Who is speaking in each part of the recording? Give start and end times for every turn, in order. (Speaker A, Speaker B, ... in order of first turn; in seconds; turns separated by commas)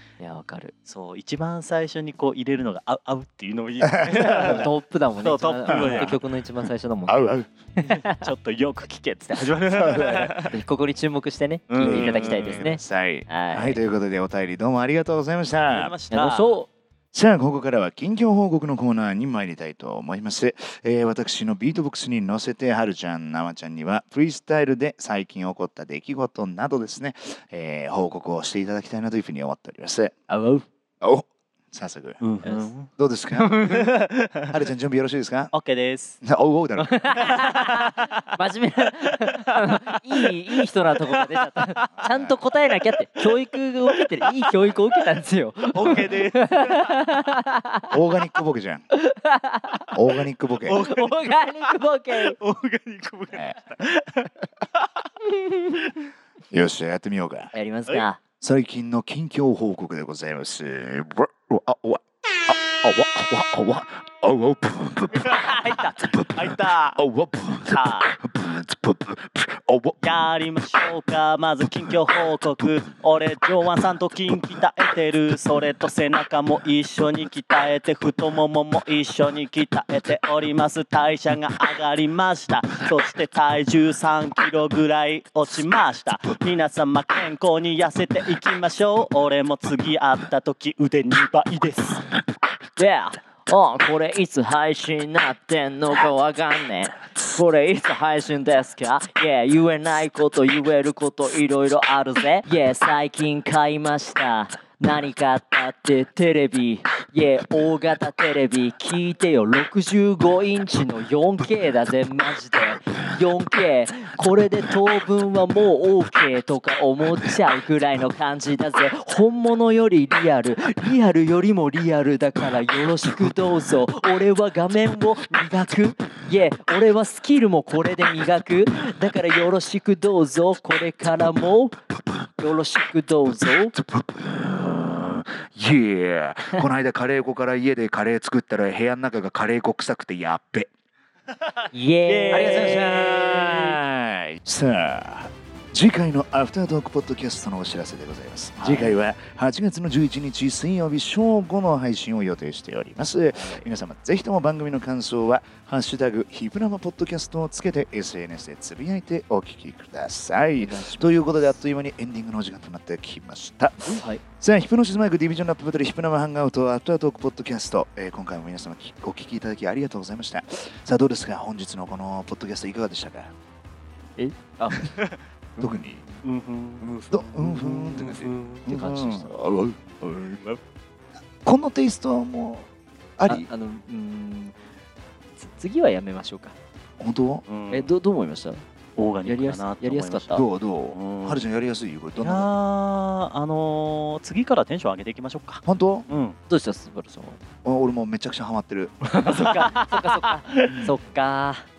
Speaker A: 0.2-0.7, Speaker B: 0.8-6.2, Speaker C: 3.8-4.7, Speaker A: 4.1-7.2, Speaker C: 5.7-7.5, Speaker A: 7.8-8.1, Speaker B: 7.8-10.6, Speaker C: 9.7-10.3, Speaker A: 10.4-13.8, Speaker B: 11.7-12.7, Speaker C: 11.8-15.9, Speaker B: 15.7-16.5, Speaker A: 16.1-16.7, Speaker C: 17.1-30.2, Speaker A: 30.3-30.6, Speaker C: 31.0-32.2, Speaker B: 32.2-32.9, Speaker A: 32.4-33.9, Speaker C: 32.9-33.5, Speaker B: 33.6-34.6, Speaker C: 34.5-35.5, Speaker B: 35.5-36.2, Speaker C: 36.2-37.0, Speaker A: 36.8-47.8, Speaker B: 37.2-38.2, Speaker B: 39.0-40.3, Speaker B: 41.1-42.0, Speaker C: 41.9-42.4, Speaker B: 43.1-43.5, Speaker B: 44.2-44.7, Speaker B: 45.7-47.1, Speaker C: 47.9-48.8, Speaker A: 49.0-49.9, Speaker C: 49.9-50.8, Speaker B: 50.7-56.1, Speaker A: 50.7-52.4, Speaker C: 53.3-53.6, Speaker C: 56.5-57.5, Speaker A: 57.5-58.2, Speaker C: 58.4-70.3, Speaker B: 65.2-67.0, Speaker A: 65.6-65.9, Speaker B: 67.6-68.1, Speaker B: 70.0-92.0, Speaker A: 92.8-131.8, Speaker A: 132.4-133.7, Speaker C: 133.7-140.7, Speaker A: 141.7-143.8, Speaker B: 142.0-143.0, Speaker C: 142.3-173.3, Speaker A: 148.6-149.0, Speaker A: 153.3-153.7, Speaker A: 160.6-161.6, Speaker A: 163.8-164.2, Speaker A: 174.2-174.9, Speaker B: 174.8-175.2, Speaker C: 175.6-176.0, Speaker A: 175.6-176.2, Speaker B: 176.2-176.9, Speaker A: 176.8-179.3, Speaker C: 177.1-179.8, Speaker A: 180.0-180.4, Speaker C: 181.4-183.5, Speaker A: 183.3-184.5, Speaker A: 185.4-186.6, Speaker C: 187.0-187.4, Speaker B: 187.4-187.9, Speaker A: 187.7-188.6, Speaker B: 188.9-191.4, Speaker A: 189.2-190.4, Speaker C: 190.3-192.5, Speaker B: 192.2-196.4, Speaker C: 195.7-196.1, Speaker A: 196.5-197.4, Speaker C: 197.6-199.5, Speaker A: 199.1-201.7, Speaker B: 199.3-200.8, Speaker C: 200.7-200.9